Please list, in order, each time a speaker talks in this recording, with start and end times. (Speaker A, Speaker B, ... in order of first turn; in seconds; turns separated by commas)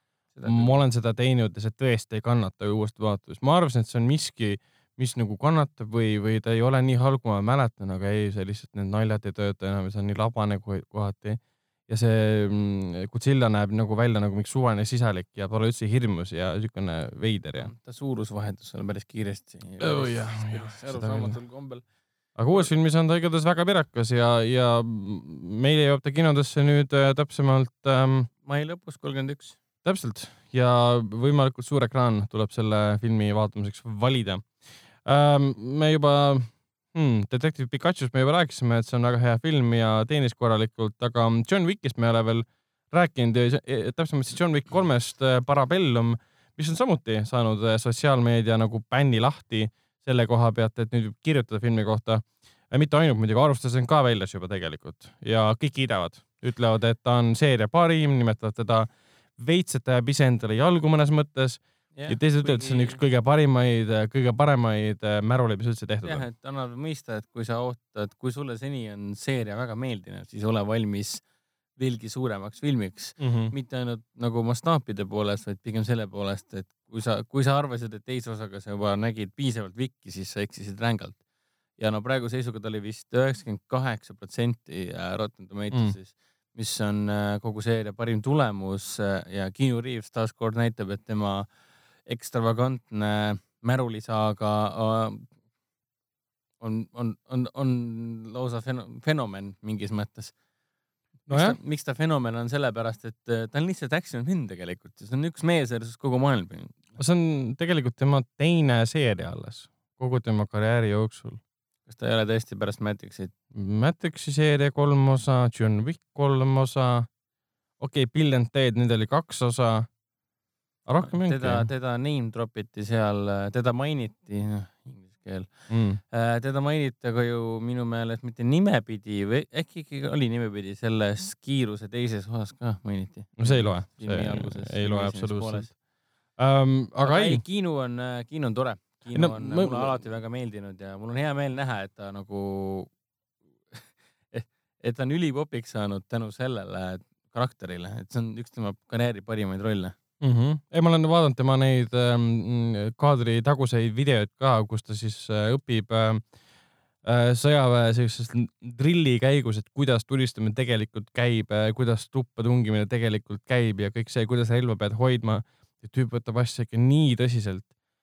Speaker A: 0.4-0.7, Speaker B: 0.4-17.7, Speaker A: 17.6-21.8, Speaker B: 19.8-21.4, Speaker B: 22.4-28.3, Speaker A: 28.4-29.6, Speaker B: 29.9-34.5, Speaker B: 35.0-66.2, Speaker A: 61.9-63.0, Speaker A: 66.0-71.2, Speaker A: 71.8-81.2, Speaker B: 73.2-73.5, Speaker A: 81.8-91.5, Speaker A: 92.1-95.3, Speaker A: 96.6-100.3, Speaker A: 101.3-106.8, Speaker B: 101.3-101.6, Speaker B: 107.0-111.4, Speaker A: 111.9-113.3, Speaker B: 113.5-117.1, Speaker B: 117.8-119.9, Speaker B: 120.9-121.7, Speaker A: 121.0-125.5, Speaker B: 125.7-126.0, Speaker A: 126.1-135.7, Speaker B: 133.4-135.7, Speaker B: 136.4-137.4, Speaker A: 137.0-142.9, Speaker B: 139.1-139.9, Speaker A: 143.7-149.9, Speaker B: 150.2-156.2, Speaker B: 157.0-167.7